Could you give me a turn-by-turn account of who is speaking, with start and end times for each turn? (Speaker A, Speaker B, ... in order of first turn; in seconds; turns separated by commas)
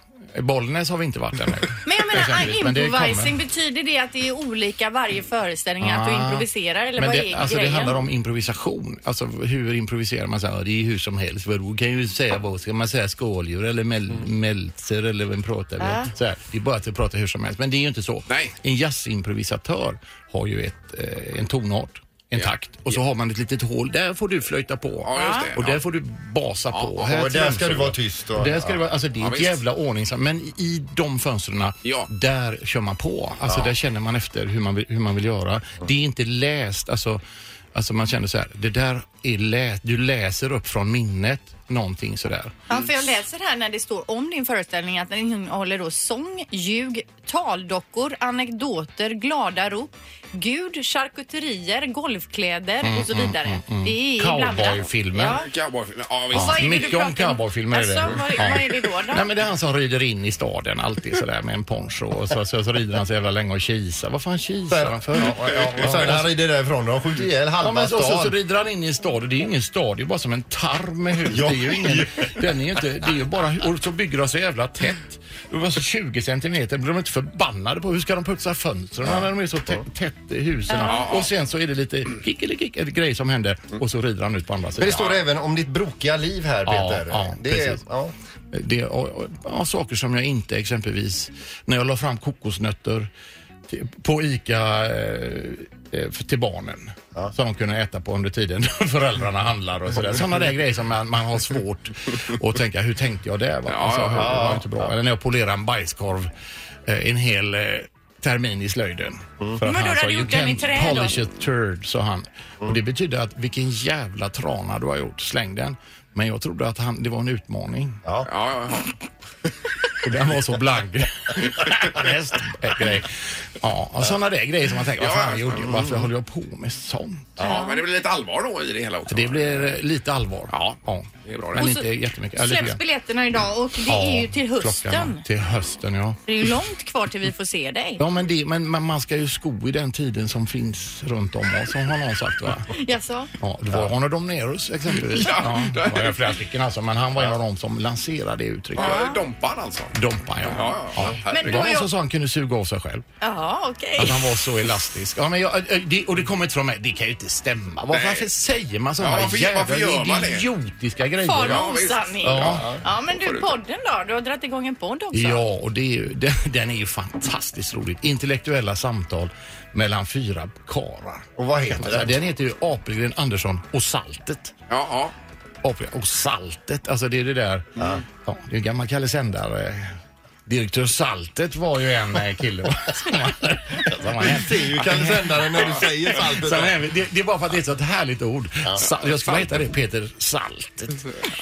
Speaker A: 0.3-3.4, Speaker B: 1.8-8.0, Speaker A: 5.8-37.2, Speaker B: 15.8-16.1, Speaker C: 18.3-18.5, Speaker C: 22.3-23.0, Speaker C: 25.0-25.8, Speaker B: 25.1-25.5, Speaker C: 26.7-27.0, Speaker D: 27.0-28.8, Speaker C: 29.2-29.6, Speaker C: 31.8-32.1, Speaker A: 37.7-42.5, Speaker B: 42.7-55.5, Speaker A: 52.8-55.4, Speaker C: 55.3-56.8, Speaker B: 56.3-59.3, Speaker A: 56.3-66.3, Speaker D: 64.7-68.3, Speaker A: 67.6-85.0, Speaker D: 71.3-72.3, Speaker D: 79.0-79.8, Speaker B: 80.7-81.0, Speaker C: 80.9-81.3, Speaker D: 84.8-88.1, Speaker A: 86.7-87.8, Speaker A: 88.5-93.1, Speaker A: 93.7-106.3, Speaker C: 103.7-104.6, Speaker D: 104.2-104.9, Speaker A: 106.9-118.0, Speaker B: 109.6-111.2, Speaker C: 118.2-118.9, Speaker A: 120.0-127.4, Speaker C: 125.0-125.8, Speaker C: 127.4-129.7, Speaker B: 127.4-127.8, Speaker A: 129.1-132.8, Speaker C: 130.5-131.6, Speaker B: 131.6-131.8, Speaker B: 132.3-135.2, Speaker A: 133.8-136.2, Speaker B: 136.3-138.0, Speaker A: 138.0-142.7, Speaker B: 142.7-143.3, Speaker A: 143.4-149.1, Speaker C: 145.1-146.3, Speaker B: 148.8-149.2, Speaker C: 148.8-151.7, Speaker A: 149.9-153.0, Speaker B: 151.3-151.9, Speaker B: 153.2-154.2, Speaker A: 154.0-162.7, Speaker C: 157.9-158.3, Speaker C: 159.0-160.5, Speaker B: 161.2-165.4, Speaker C: 161.4-163.6, Speaker D: 162.3-162.8, Speaker A: 165.1-174.5, Speaker D: 171.4-172.2, Speaker C: 174.7-175.1, Speaker A: 175.6-191.1, Speaker D: 177.8-178.0, Speaker D: 183.9-186.8, Speaker C: 189.1-189.5